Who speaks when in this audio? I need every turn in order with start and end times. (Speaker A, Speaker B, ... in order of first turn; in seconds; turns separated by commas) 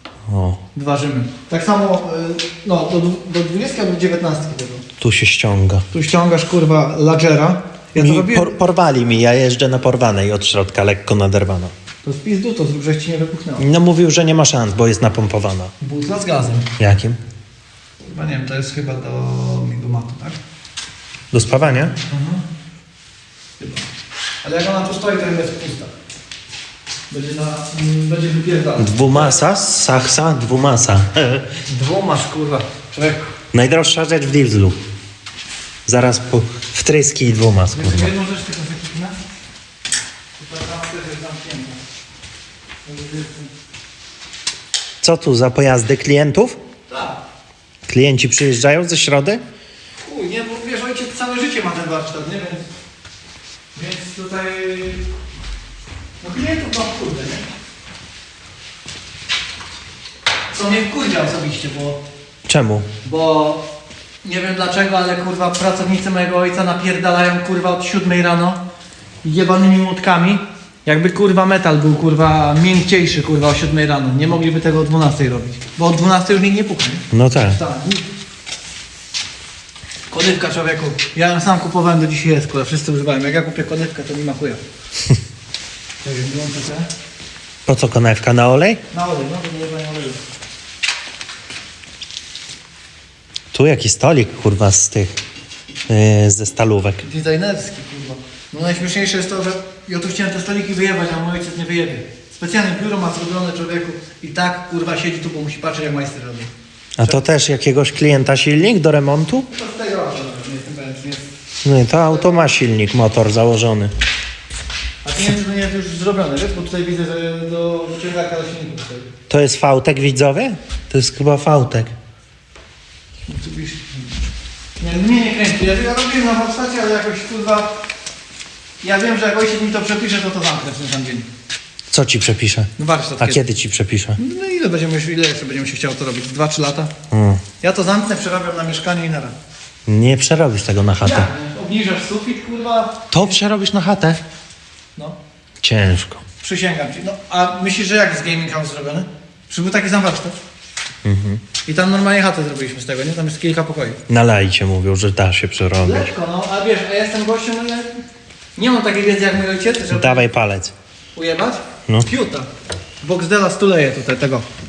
Speaker A: 0.3-0.6, Speaker B: 0.7-4.8, Speaker A: 5.0-5.9, Speaker B: 5.9-8.5, Speaker A: 8.0-11.7, Speaker B: 12.0-13.7, Speaker A: 13.6-15.7, Speaker B: 15.8-16.7, Speaker A: 16.8-17.2, Speaker B: 18.0-20.4, Speaker A: 21.3-21.9, Speaker B: 22.0-22.4, Speaker B: 23.6-23.8, Speaker B: 24.4-25.9, Speaker B: 27.1-29.4, Speaker A: 28.8-31.5, Speaker B: 31.6-33.3, Speaker A: 33.5-34.8, Speaker A: 35.9-38.1, Speaker B: 37.7-39.2, Speaker B: 40.4-41.8, Speaker B: 42.8-43.5, Speaker A: 45.0-46.6, Speaker B: 46.9-47.2, Speaker A: 47.9-49.4, Speaker B: 50.0-52.6, Speaker B: 53.7-55.0, Speaker B: 56.2-57.4, Speaker B: 60.5-62.0, Speaker A: 62.5-62.9, Speaker B: 63.0-63.6, Speaker B: 64.2-68.6, Speaker B: 69.2-78.0, Speaker A: 77.1-77.6, Speaker B: 80.1-84.6, Speaker B: 86.0-86.9, Speaker A: 87.7-88.8, Speaker B: 88.9-90.2, Speaker A: 93.5-95.2, Speaker A: 95.9-97.0, Speaker B: 97.0-106.5, Speaker A: 107.0-109.5, Speaker B: 109.5-111.3, Speaker A: 111.6-113.9, Speaker B: 112.0-112.5, Speaker B: 115.0-119.1, Speaker A: 119.3-121.9, Speaker B: 123.3-124.0, Speaker B: 124.8-127.7, Speaker B: 128.8-131.3, Speaker A: 131.9-134.2, Speaker B: 132.8-133.4, Speaker B: 134.2-136.9, Speaker A: 137.1-137.4, Speaker B: 137.6-139.3, Speaker A: 139.9-141.3, Speaker B: 141.0-143.2, Speaker A: 143.1-144.2, Speaker A: 145.6-146.2, Speaker B: 146.4-150.4, Speaker A: 151.0-151.4, Speaker B: 151.7-154.0, Speaker A: 154.1-156.1, Speaker B: 155.8-158.0, Speaker B: 158.6-160.3, Speaker A: 159.9-160.7, Speaker B: 161.1-162.5, Speaker B: 163.0-164.4